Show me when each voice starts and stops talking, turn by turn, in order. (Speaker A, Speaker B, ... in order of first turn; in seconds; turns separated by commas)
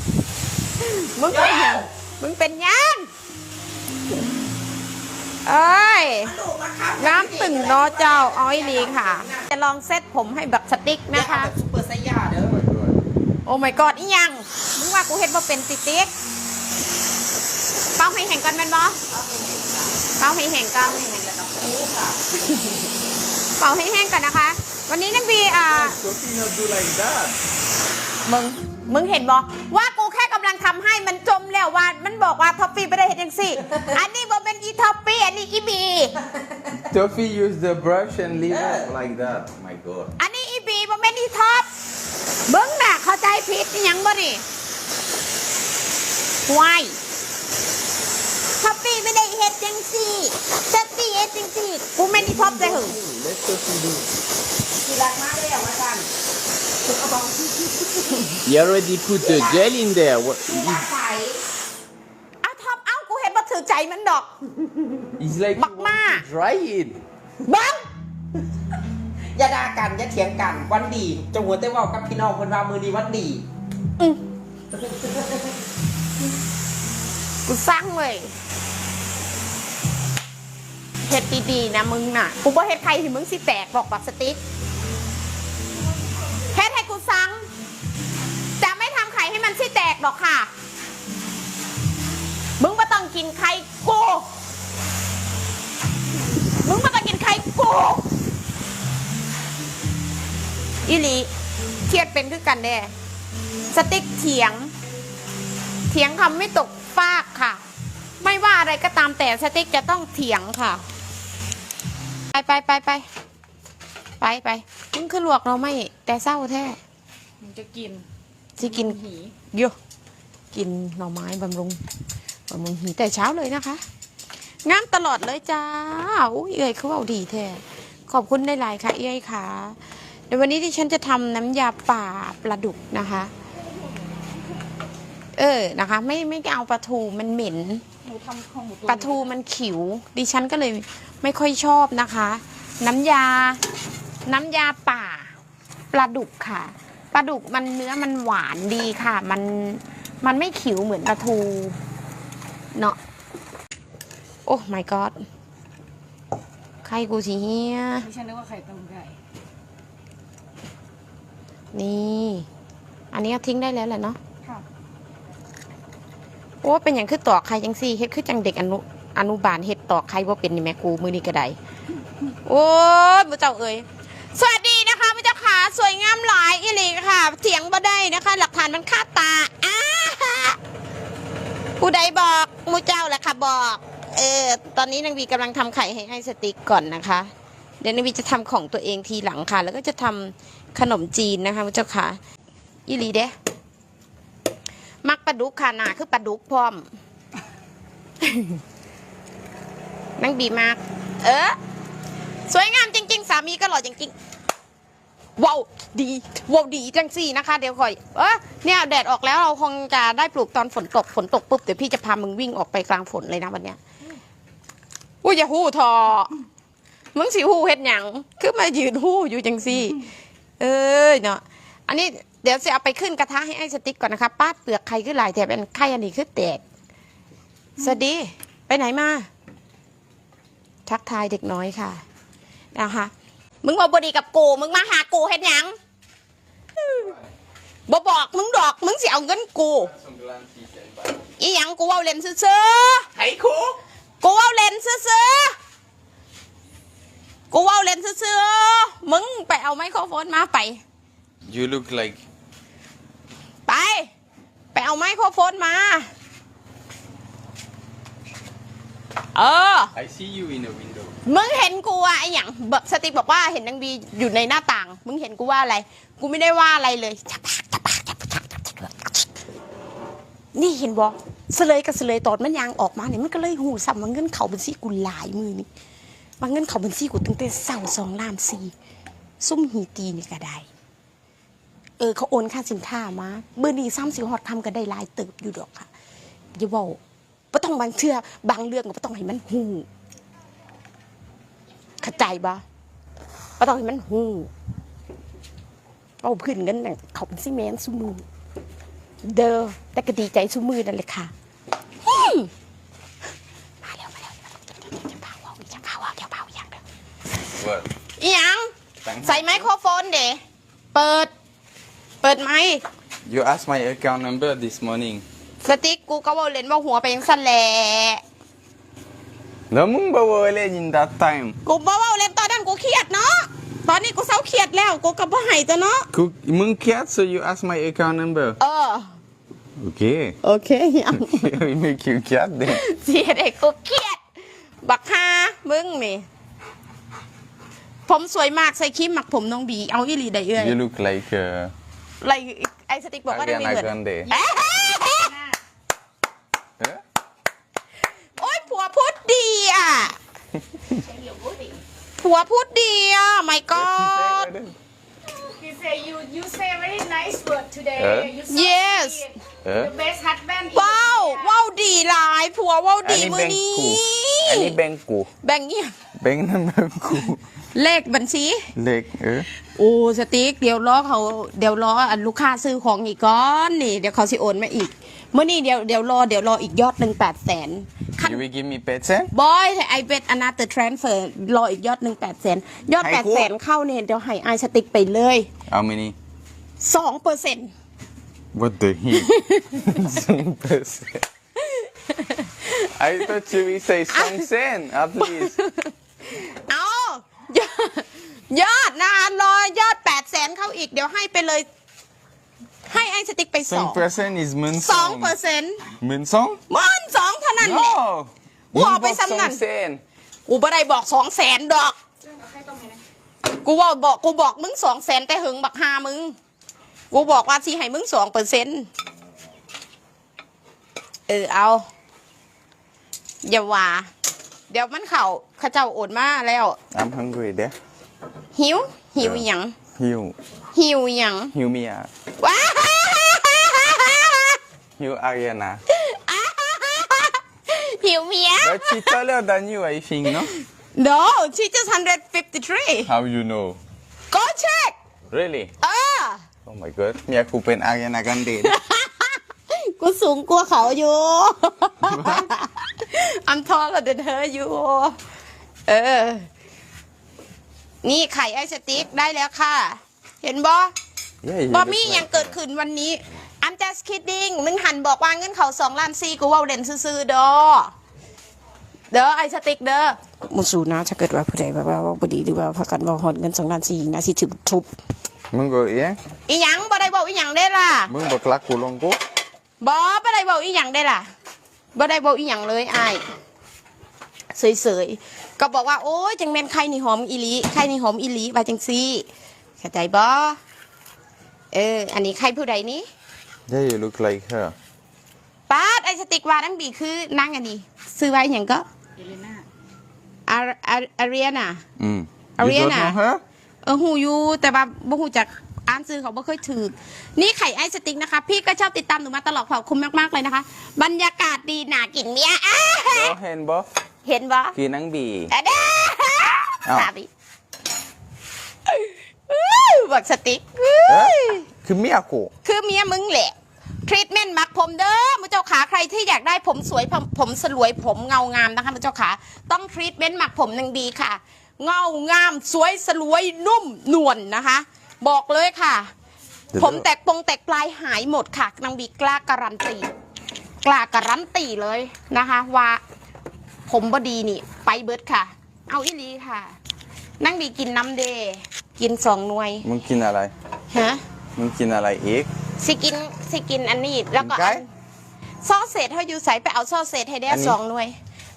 Speaker A: 0.8-3.1, Speaker B: 1.3-1.9, Speaker A: 5.5-6.3, Speaker B: 6.3-9.4, Speaker A: 7.0-11.5, Speaker B: 11.1-12.6, Speaker C: 12.4-12.9, Speaker A: 13.5-16.1, Speaker A: 18.0-19.0, Speaker A: 20.2-21.4, Speaker B: 21.3-22.2, Speaker A: 23.6-26.0, Speaker C: 25.6-27.4, Speaker A: 28.3-36.1, Speaker C: 36.7-40.1, Speaker A: 40.2-41.7, Speaker A: 42.5-44.4, Speaker A: 46.5-47.0, Speaker A: 48.6-53.0, Speaker C: 52.1-54.1, Speaker A: 54.8-56.1, Speaker A: 57.1-58.4, Speaker C: 58.4-60.9, Speaker A: 60.5-61.4, Speaker A: 62.4-64.3, Speaker C: 65.2-67.0, Speaker A: 65.6-66.2, Speaker A: 67.5-67.8, Speaker B: 69.4-73.4, Speaker A: 77.5-78.3, Speaker A: 81.1-84.4, Speaker A: 86.5-87.5, Speaker A: 88.6-90.5, Speaker A: 92.6-94.3, Speaker A: 96.6-98.0, Speaker A: 100.9-101.3, Speaker A: 101.9-102.9, Speaker A: 103.7-104.7, Speaker A: 105.9-107.6, Speaker A: 108.2-110.8, Speaker A: 112.3-113.1, Speaker A: 114.2-116.8, Speaker D: 117.4-118.0, Speaker A: 118.6-119.0, Speaker D: 118.6-119.3, Speaker A: 120.5-121.8, Speaker A: 122.5-123.8, Speaker A: 124.7-129.8, Speaker A: 130.3-133.3, Speaker A: 135.4-137.8, Speaker D: 138.0-139.3, Speaker A: 138.9-143.6, Speaker A: 144.3-145.3, Speaker A: 145.9-151.8, Speaker A: 154.5-155.2, Speaker A: 156.8-158.1, Speaker D: 158.0-159.2, Speaker A: 161.7-162.5, Speaker A: 163.1-164.2, Speaker A: 166.6-171.6, Speaker A: 172.5-180.6, Speaker A: 181.8-187.3, Speaker A: 187.8-192.2, Speaker A: 192.9-193.3, Speaker A: 195.0-196.8, Speaker A: 198.2-198.6, Speaker A: 200.2-201.6, Speaker A: 202.5-204.1, Speaker A: 205.4-213.8, Speaker A: 215.2-216.3, Speaker A: 217.1-220.0, Speaker A: 220.6-226.6, Speaker A: 227.8-229.3, Speaker A: 230.9-232.0, Speaker A: 232.7-233.1, Speaker A: 233.6-235.8, Speaker A: 236.8-237.1, Speaker A: 237.9-239.9, Speaker C: 239.9-241.2, Speaker A: 241.4-243.1, Speaker C: 243.2-243.8, Speaker A: 244.2-245.5, Speaker A: 247.5-250.8, Speaker C: 251.5-252.2, Speaker A: 253.7-254.1, Speaker A: 254.7-256.1, Speaker A: 259.4-259.9, Speaker C: 259.9-261.2, Speaker A: 261.2-269.3, Speaker A: 270.6-275.7, Speaker A: 276.4-278.7, Speaker A: 279.4-280.7, Speaker A: 282.0-285.9, Speaker A: 286.6-287.0, Speaker A: 287.5-289.9, Speaker A: 292.0-292.6, Speaker A: 293.6-294.5, Speaker A: 296.2-298.2, Speaker A: 299.2-301.3, Speaker A: 302.0-302.5, Speaker A: 303.8-304.3, Speaker A: 304.9-306.8, Speaker C: 307.4-307.9, Speaker A: 308.2-308.7, Speaker C: 309.0-309.7, Speaker A: 309.2-310.4, Speaker A: 310.9-311.3, Speaker A: 312.2-312.8, Speaker C: 313.2-315.2, Speaker A: 315.6-318.2, Speaker C: 319.7-321.6, Speaker A: 321.6-326.1, Speaker C: 326.1-328.6, Speaker A: 328.6-329.1, Speaker C: 329.8-330.4, Speaker A: 330.4-331.4, Speaker C: 331.1-332.8, Speaker A: 332.7-334.2, Speaker A: 334.8-336.3, Speaker A: 338.1-340.8, Speaker C: 340.6-341.7, Speaker A: 342.2-345.4, Speaker C: 343.3-344.3, Speaker A: 348.4-350.2, Speaker C: 350.7-351.0, Speaker D: 351.0-351.7, Speaker A: 352.2-354.5, Speaker C: 353.7-354.8, Speaker D: 355.3-361.5, Speaker C: 358.0-358.4, Speaker A: 358.5-359.3, Speaker C: 359.6-359.9, Speaker A: 360.7-364.8, Speaker C: 363.0-365.3, Speaker A: 365.4-365.9, Speaker C: 366.2-367.4, Speaker A: 367.8-368.7, Speaker C: 368.7-369.5, Speaker A: 369.8-378.4, Speaker C: 378.2-379.3, Speaker A: 379.3-385.5, Speaker C: 383.0-383.5, Speaker C: 385.7-386.1, Speaker A: 386.8-387.7, Speaker C: 388.5-391.2, Speaker A: 389.1-389.9, Speaker A: 391.6-392.9, Speaker C: 392.9-395.5, Speaker A: 394.1-394.5, Speaker A: 395.2-401.7, Speaker A: 402.9-404.0, Speaker C: 403.6-405.4, Speaker A: 404.8-405.8, Speaker C: 406.0-406.6, Speaker A: 406.7-408.0, Speaker C: 407.6-410.0, Speaker A: 408.7-409.6, Speaker A: 410.5-412.0, Speaker D: 412.3-413.0, Speaker A: 413.5-416.4, Speaker A: 417.1-418.9, Speaker A: 421.3-421.9, Speaker A: 423.4-424.1, Speaker A: 424.7-426.8, Speaker C: 426.9-427.8, Speaker A: 428.6-429.8, Speaker C: 429.2-429.4, Speaker C: 430.0-430.4, Speaker A: 430.7-431.5, Speaker C: 431.5-432.1, Speaker A: 432.4-434.6, Speaker C: 435.0-435.8, Speaker A: 435.9-439.2, Speaker C: 438.6-440.5, Speaker A: 440.4-443.1, Speaker C: 443.1-443.8, Speaker A: 444.3-445.0, Speaker C: 445.3-445.7, Speaker A: 445.8-446.4, Speaker C: 446.6-448.8, Speaker A: 448.6-455.2, Speaker C: 452.0-452.5, Speaker A: 455.9-456.5, Speaker A: 458.0-460.9, Speaker C: 461.4-462.6, Speaker A: 461.7-467.9, Speaker A: 469.1-474.9, Speaker C: 475.5-476.2, Speaker A: 476.5-478.1, Speaker C: 478.1-479.2, Speaker A: 479.8-481.3, Speaker A: 481.9-483.2, Speaker A: 484.5-489.3, Speaker A: 489.8-490.6, Speaker A: 491.7-493.1, Speaker C: 493.7-494.8, Speaker A: 495.7-498.9, Speaker D: 499.2-499.6, Speaker A: 500.5-501.8, Speaker C: 502.0-503.4, Speaker A: 502.6-503.2, Speaker A: 503.8-513.3, Speaker C: 513.1-513.9, Speaker A: 514.2-514.8, Speaker C: 514.7-515.5, Speaker A: 515.5-517.3, Speaker A: 518.9-521.6, Speaker C: 521.1-522.5, Speaker A: 522.6-523.5, Speaker A: 524.1-536.1, Speaker C: 536.7-537.1, Speaker A: 536.8-540.1, Speaker A: 540.8-543.0, Speaker A: 543.9-546.7, Speaker A: 547.4-549.9, Speaker C: 549.8-550.5, Speaker A: 550.9-551.2, Speaker C: 551.6-552.5, Speaker A: 552.8-554.9, Speaker C: 554.4-554.8, Speaker A: 555.6-558.2, Speaker C: 557.5-557.8